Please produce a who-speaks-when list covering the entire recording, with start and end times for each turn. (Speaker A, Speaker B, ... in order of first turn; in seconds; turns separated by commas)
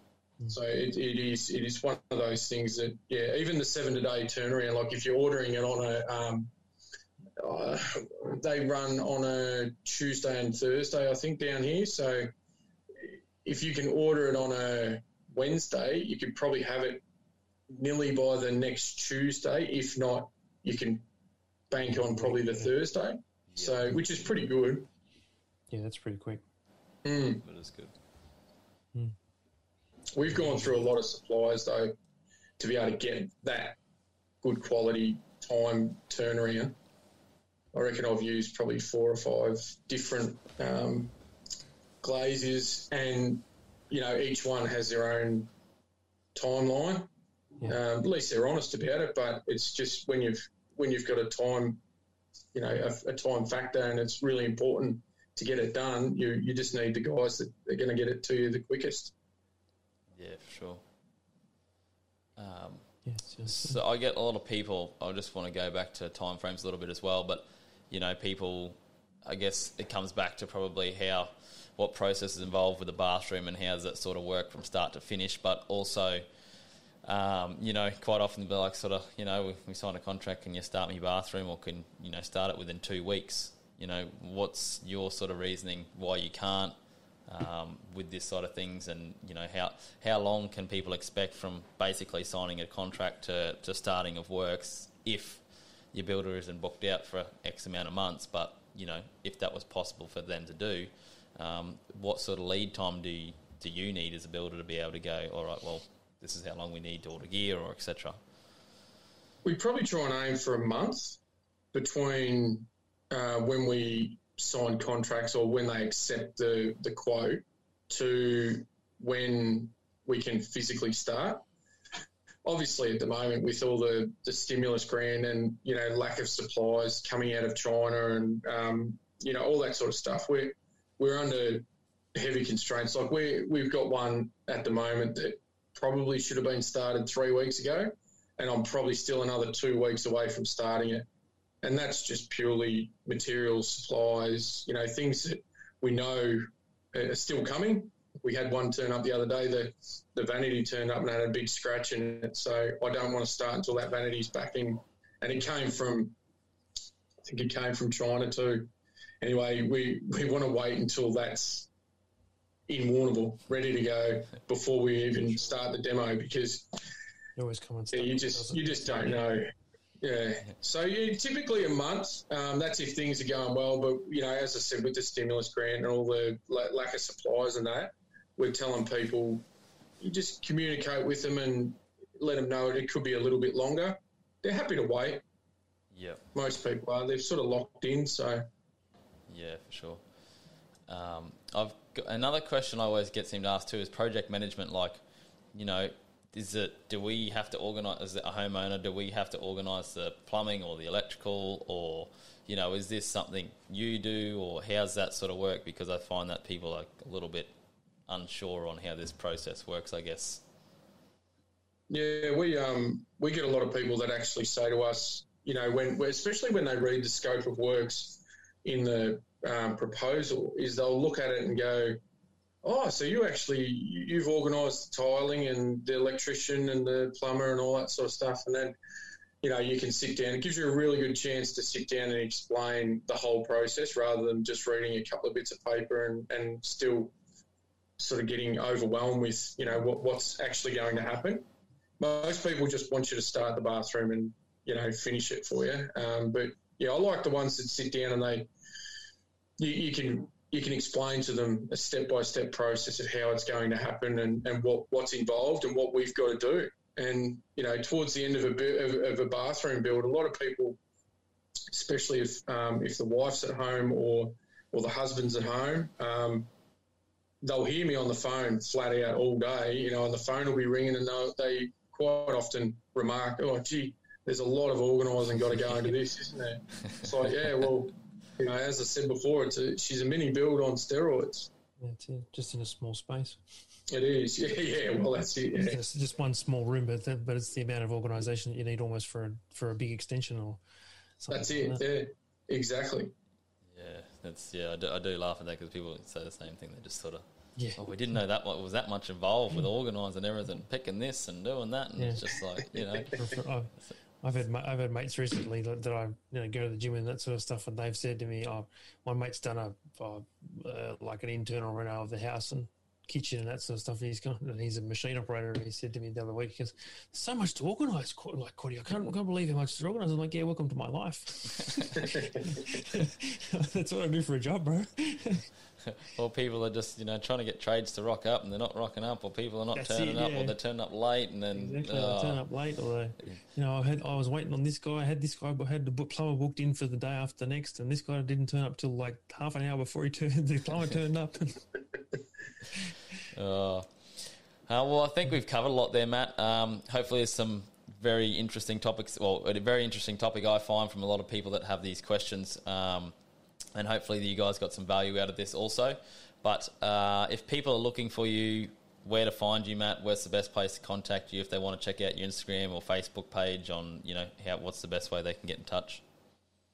Speaker A: 0.5-6.5, Speaker A: 7.4-12.3, Speaker A: 13.0-17.0, Speaker A: 17.7-21.1, Speaker A: 21.7-24.9, Speaker B: 21.9-22.7, Speaker C: 23.5-23.9, Speaker B: 25.7-26.4, Speaker A: 27.0-27.4, Speaker C: 27.4-27.9, Speaker A: 30.1-32.0, Speaker B: 30.4-30.7, Speaker A: 32.6-33.8, Speaker A: 34.4-36.8, Speaker A: 37.7-41.1, Speaker A: 42.0-45.5, Speaker A: 46.4-47.1, Speaker A: 47.7-51.8, Speaker A: 52.5-59.1, Speaker C: 60.1-60.8, Speaker C: 62.4-62.9, Speaker B: 63.1-63.8, Speaker C: 63.5-76.2, Speaker C: 77.0-108.2, Speaker A: 109.4-111.2, Speaker A: 111.7-121.5, Speaker A: 122.5-141.1, Speaker A: 141.6-156.2, Speaker A: 157.2-158.7, Speaker A: 159.2-161.7, Speaker A: 162.7-166.8, Speaker B: 167.4-169.3, Speaker A: 167.9-179.4, Speaker A: 180.0-185.2, Speaker C: 185.9-186.2, Speaker A: 186.3-188.5, Speaker C: 189.3-190.0, Speaker C: 190.9-195.0, Speaker C: 195.5-207.5, Speaker C: 208.1-210.4, Speaker A: 211.9-222.0, Speaker A: 222.6-228.8, Speaker A: 229.4-237.2, Speaker A: 238.0-241.5, Speaker A: 242.0-248.5, Speaker A: 249.6-260.8, Speaker A: 261.7-266.5, Speaker A: 267.4-281.5, Speaker B: 281.8-283.4, Speaker A: 283.9-285.8, Speaker B: 285.6-290.6, Speaker B: 291.2-291.8, Speaker A: 291.3-293.1, Speaker C: 293.7-297.2, Speaker C: 297.8-303.3, Speaker B: 302.0-302.2, Speaker B: 303.1-325.5, Speaker C: 325.9-332.4, Speaker B: 329.7-330.6, Speaker B: 331.5-341.8, Speaker C: 343.3-353.1, Speaker C: 353.8-366.0